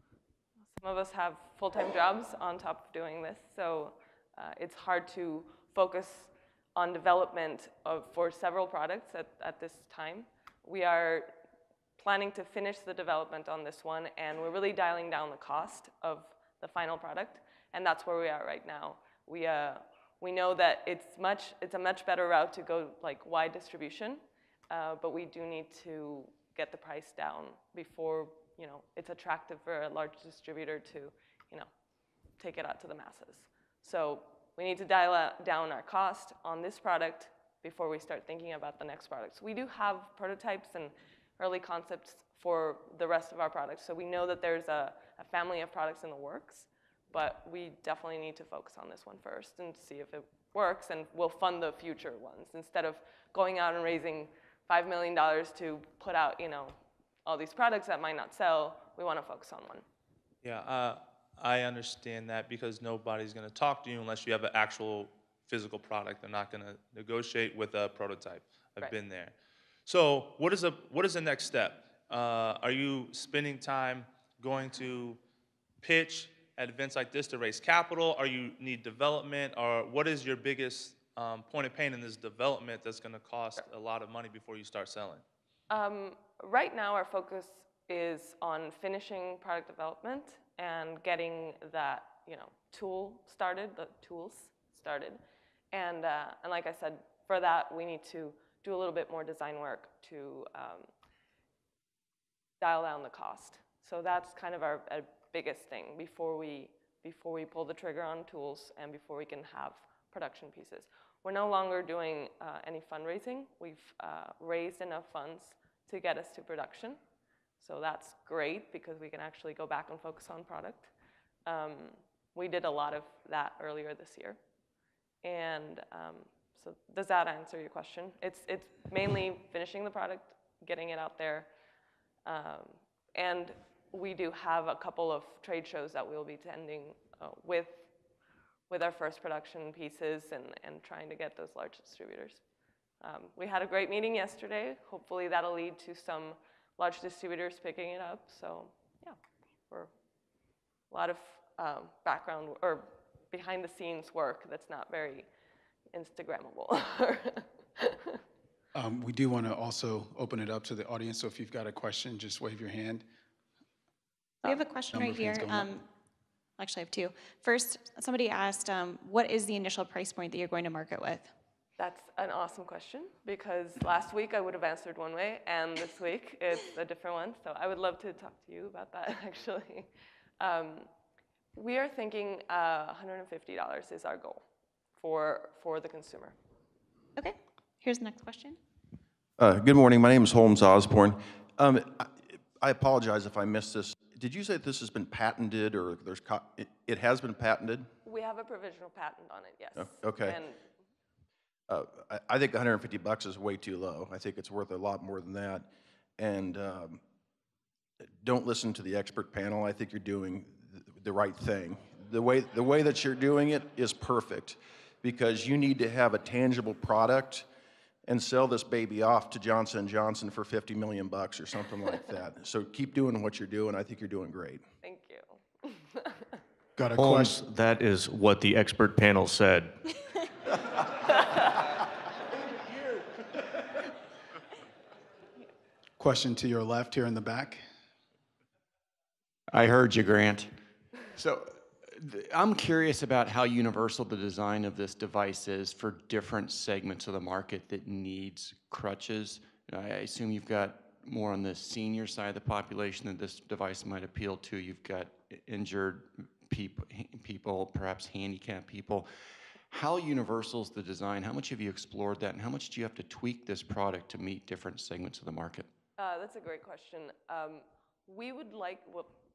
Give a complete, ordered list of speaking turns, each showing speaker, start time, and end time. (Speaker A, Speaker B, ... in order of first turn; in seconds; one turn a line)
Speaker A: 0.7-11.3
Speaker A: 12.0-31.7
Speaker A: 32.4-59.8
Speaker B: 60.4-69.3
Speaker B: 69.9-75.2
Speaker B: 75.8-85.2
Speaker A: 85.7-95.2
Speaker A: 95.7-100.9
Speaker A: 102.6-117.0
Speaker A: 117.6-120.9
Speaker A: 121.5-124.4
Speaker A: 125.2-131.5
Speaker A: 132.3-137.9
Speaker A: 138.7-142.4
Speaker A: 143.0-149.2
Speaker A: 150.9-155.3
Speaker A: 155.9-158.2
Speaker C: 158.8-163.1
Speaker D: 164.4-165.8
Speaker C: 164.4-165.7
Speaker D: 166.6-171.3
Speaker A: 171.8-180.9
Speaker A: 181.6-184.4
Speaker A: 185.0-186.4
Speaker D: 187.2-188.6
Speaker E: 189.4-197.9
Speaker A: 198.1-200.6
Speaker E: 199.8-200.3
Speaker E: 201.7-205.7
Speaker E: 206.2-207.0
Speaker E: 208.2-217.4
Speaker E: 218.1-224.6
Speaker A: 224.8-226.4
Speaker C: 226.8-227.4
Speaker F: 226.9-229.8
Speaker C: 236.0-237.6
Speaker G: 239.5-240.5
Speaker G: 241.2-259.1
Speaker G: 259.7-265.7
Speaker A: 266.0-269.1